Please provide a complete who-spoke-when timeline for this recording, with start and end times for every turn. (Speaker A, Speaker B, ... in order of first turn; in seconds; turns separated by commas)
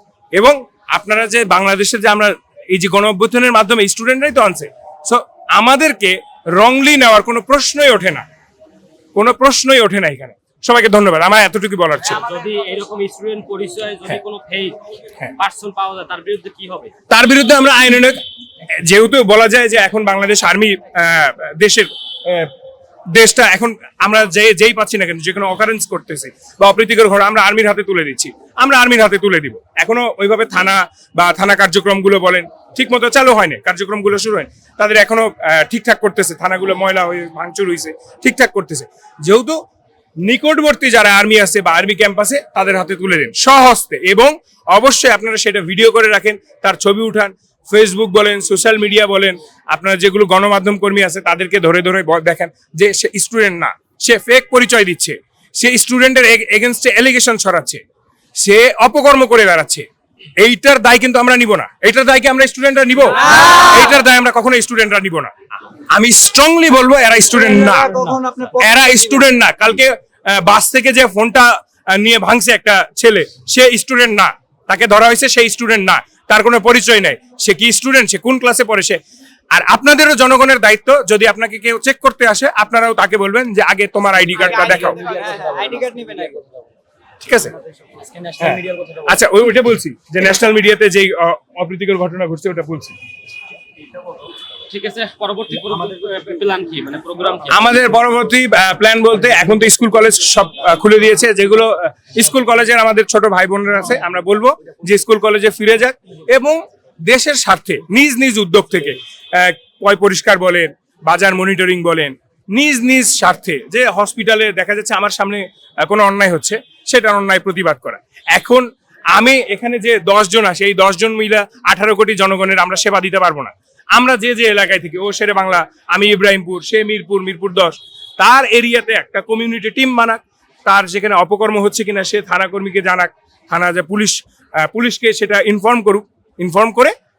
Speaker A: 0.3-8.2, Speaker A: 9.1-12.3, Speaker B: 12.1-14.8, Speaker B: 15.3-16.9, Speaker A: 17.1-18.2, Speaker A: 18.8-22.5, Speaker A: 23.1-39.6, Speaker A: 40.2-57.8, Speaker A: 58.4-59.9, Speaker A: 60.4-65.3, Speaker A: 65.9-79.0, Speaker C: 67.5-69.0, Speaker A: 79.5-85.2, Speaker C: 84.4-86.5, Speaker B: 85.3-85.8, Speaker A: 87.2-87.5, Speaker B: 88.0-89.0, Speaker A: 88.4-93.0, Speaker B: 94.7-97.8, Speaker A: 97.5-136.9